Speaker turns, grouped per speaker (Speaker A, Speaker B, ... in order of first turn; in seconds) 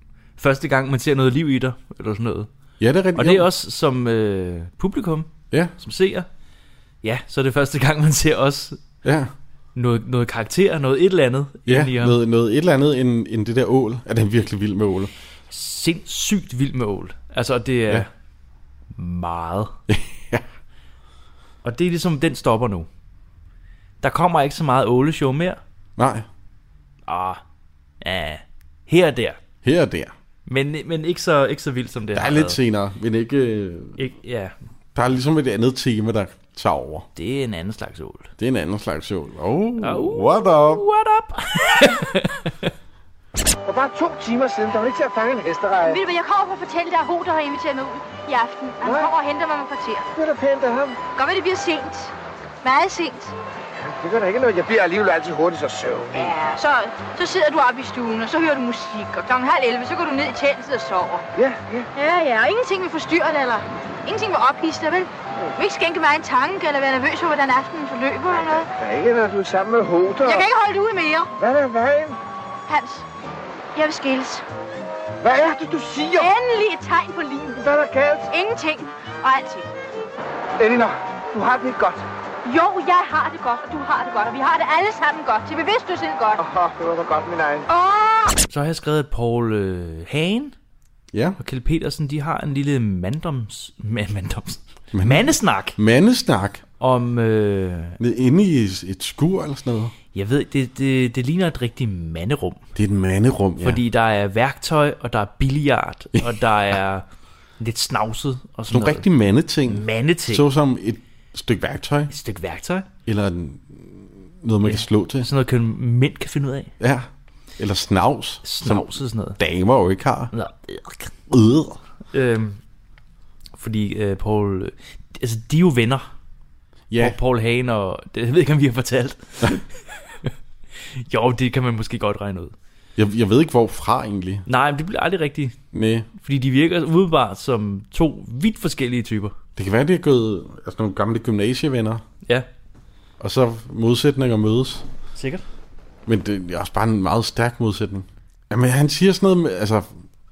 Speaker A: 0.4-2.5, 3.1-6.3, 7.0-8.8, 9.7-12.2, 15.5-18.1, 18.9-19.7, 21.6-22.9, 24.0-25.6, 27.1-27.4, 28.0-29.4, 30.5-32.6, 34.0-34.5, 37.1-38.3, 39.8-42.7, 88.5-90.5, 91.4-95.8, 96.8-98.0, 100.1-102.6, 103.6-107.0, 107.6-109.0, 109.7-110.5, 112.1-112.9, 114.6-116.7, 118.4-119.4, 120.3-121.1, 122.1-122.6, 123.6-126.1, 127.0-130.3, 130.9-132.5, 134.5-135.6, 136.2-139.3, 145.1-145.4
Speaker B: 2.8-3.5, 9.0-9.3, 11.7-15.1, 19.9-20.4, 26.0-26.3, 29.6-30.1, 32.1-34.0, 34.9-37.1, 38.4-40.8, 91.1-91.4, 94.9-96.6, 98.0-99.9, 102.7-103.8, 108.7-112.1, 113.0-115.3, 116.8-120.3, 121.3-121.8, 126.9-127.2, 132.9-134.4, 135.7-136.1, 139.6-142.0, 143.2-144.8, 146.1-149.9
Speaker C: 43.6-46.0, 50.1-51.0, 53.8-56.3, 61.4-61.9, 68.3-70.4, 71.4-72.2, 75.2-76.3, 77.6-78.3, 80.6-82.0, 86.4-87.7
Speaker D: 45.9-50.0, 51.1-52.1, 52.6-53.3, 56.2-61.2, 62.0-68.7, 70.2-71.3, 72.7-73.0, 73.8-74.4, 76.2-77.7, 78.3-79.7, 82.5-86.4